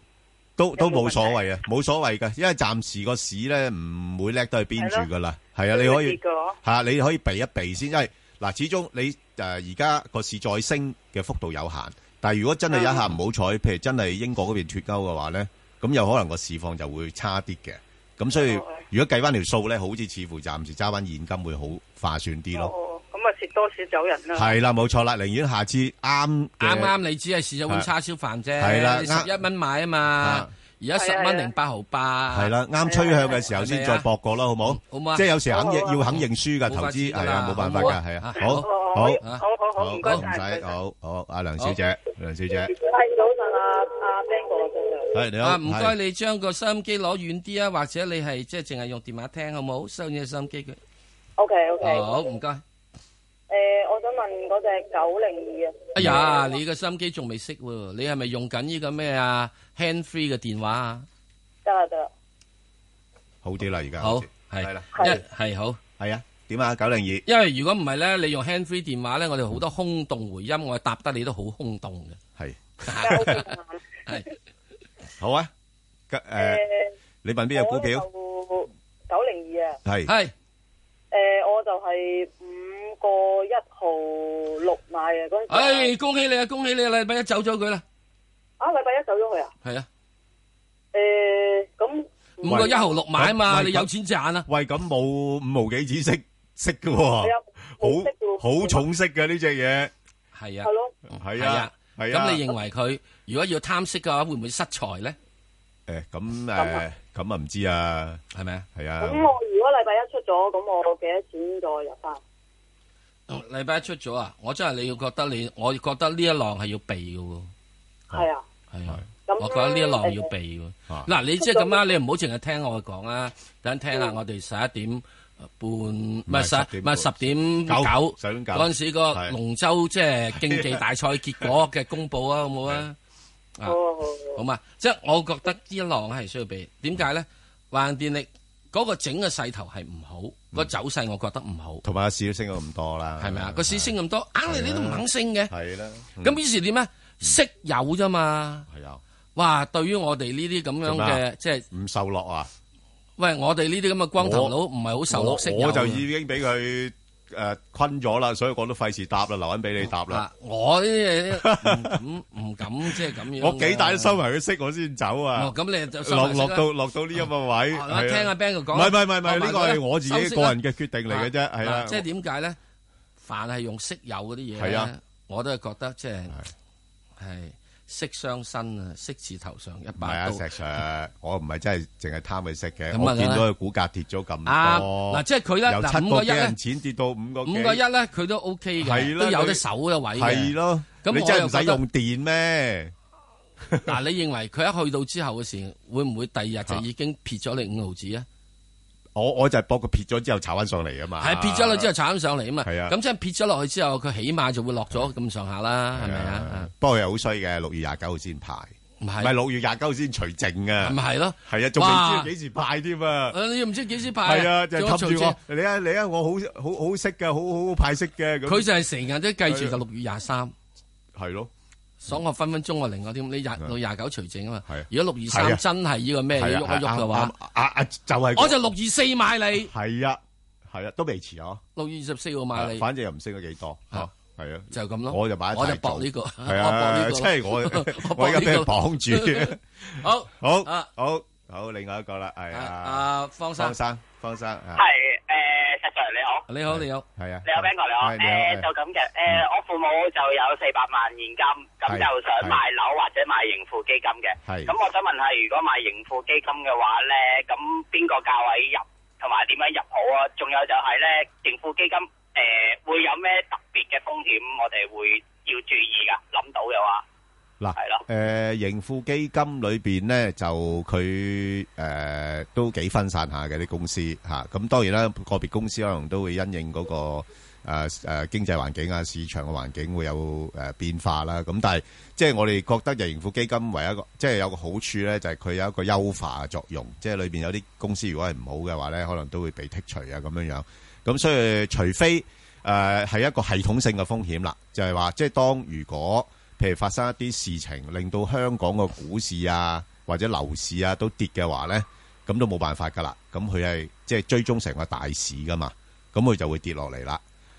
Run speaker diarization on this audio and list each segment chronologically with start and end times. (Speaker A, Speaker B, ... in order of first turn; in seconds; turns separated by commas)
Speaker A: 0.6-22.7, Speaker B: 0.8-1.4, Speaker B: 4.8-5.1, Speaker B: 5.7-6.6, Speaker B: 12.8-13.0, Speaker B: 18.4-18.8, Speaker B: 22.6-24.5, Speaker A: 24.3-26.9, Speaker C: 26.6-32.5, Speaker A: 28.6-29.3, Speaker A: 30.2-30.5, Speaker B: 31.0-31.5, Speaker A: 32.3-39.2, Speaker B: 32.9-33.4, Speaker C: 33.5-34.1, Speaker C: 34.6-35.3, Speaker B: 35.5-36.0, Speaker C: 36.1-39.4, Speaker B: 38.4-40.7, Speaker A: 39.8-42.7, Speaker B: 42.5-45.1, Speaker A: 45.1-46.0, Speaker C: 45.4-50.8, Speaker B: 51.4-52.2, Speaker C: 51.8-52.6, Speaker B: 53.5-56.5, Speaker C: 55.9-61.1, Speaker B: 61.6-62.1, Speaker A: 63.4-65.1, Speaker C: 64.0-65.8, Speaker B: 65.0-65.2, Speaker A: 66.0-67.2, Speaker C: 67.3-72.2, Speaker A: 72.4-73.4, Speaker C: 72.8-73.3, Speaker B: 73.0-73.8, Speaker A: 75.2-75.5, Speaker A: 76.1-76.6, Speaker B: 76.4-76.9, Speaker A: 77.2-78.1, Speaker B: 77.5-79.8, Speaker A: 79.8-80.1, Speaker C: 80.1-80.3, Speaker B: 81.1-85.9, Speaker C: 85.5-87.8, Speaker B: 88.6-89.5, Speaker B: 90.9-92.9, Speaker C: 92.4-94.5, Speaker A: 92.5-93.9, Speaker A: 94.5-99.9, Speaker B: 97.2-98.8, Speaker C: 100.3-105.2, Speaker B: 100.7-101.0, Speaker A: 101.2-102.5, Speaker A: 105.9-108.2, Speaker B: 106.6-106.8, Speaker C: 108.3-108.7, Speaker A: 108.8-109.3, Speaker B: 109.0-112.2, Speaker C: 113.3-117.5, Speaker B: 118.1-118.4, Speaker C: 118.7-125.0, Speaker B: 119.3-120.3, Speaker B: 121.4-121.8, Speaker C: 125.6-133.0, Speaker A: 126.3-129.4, Speaker A: 130.4-130.8, Speaker B: 133.7-134.4, Speaker C: 134.3-141.8, Speaker A: 141.8-143.9, Speaker C: 143.2-145.5, Speaker A: 144.5-146.4, Speaker C: 146.2-148.7, Speaker A: 148.7-149.0, Speaker C: 149.4-151.7, Speaker A: 150.8-152.5, Speaker C: 153.2-156.1, Speaker A: 154.2-154.6, Speaker A: 155.1-160.2, Speaker C: 160.1-164.2, Speaker A: 161.3-162.0, Speaker A: 162.9-172.1, Speaker C: 165.4-166.7, Speaker C: 167.7-170.6, Speaker C: 171.1-172.6, Speaker C: 173.2-176.4, Speaker A: 174.6-174.9, Speaker C: 177.2-180.4, Speaker A: 180.0-187.8, Speaker C: 182.9-183.5, Speaker C: 184.5-186.6, Speaker C: 187.4-191.8, Speaker A: 188.8-189.6, Speaker A: 190.1-192.9, Speaker A: 193.7-193.9, Speaker C: 193.8-198.3, Speaker A: 199.2-201.9, Speaker C: 201.2-206.7, Speaker A: 202.6-203.0, Speaker A: 205.9-213.4, Speaker C: 209.0-209.3, Speaker C: 210.8-212.3, Speaker C: 213.3-215.4, Speaker A: 214.2-218.7, Speaker C: 218.5-220.5, Speaker A: 219.5-219.8, Speaker A: 221.2-221.5, Speaker C: 222.0-227.4, Speaker A: 224.7-225.6, Speaker A: 226.3-228.6, Speaker C: 228.4-229.7, Speaker A: 229.7-231.6, Speaker C: 231.8-232.8, Speaker A: 232.6-244.8, Speaker C: 234.7-240.9, Speaker C: 242.5-243.8, Speaker D: 244.8-246.5, Speaker C: 246.5-247.1, Speaker A: 246.7-248.7, Speaker D: 247.5-267.0, Speaker A: 251.9-252.6, Speaker A: 254.4-254.8, Speaker A: 267.6-307.2, Speaker D: 267.8-268.0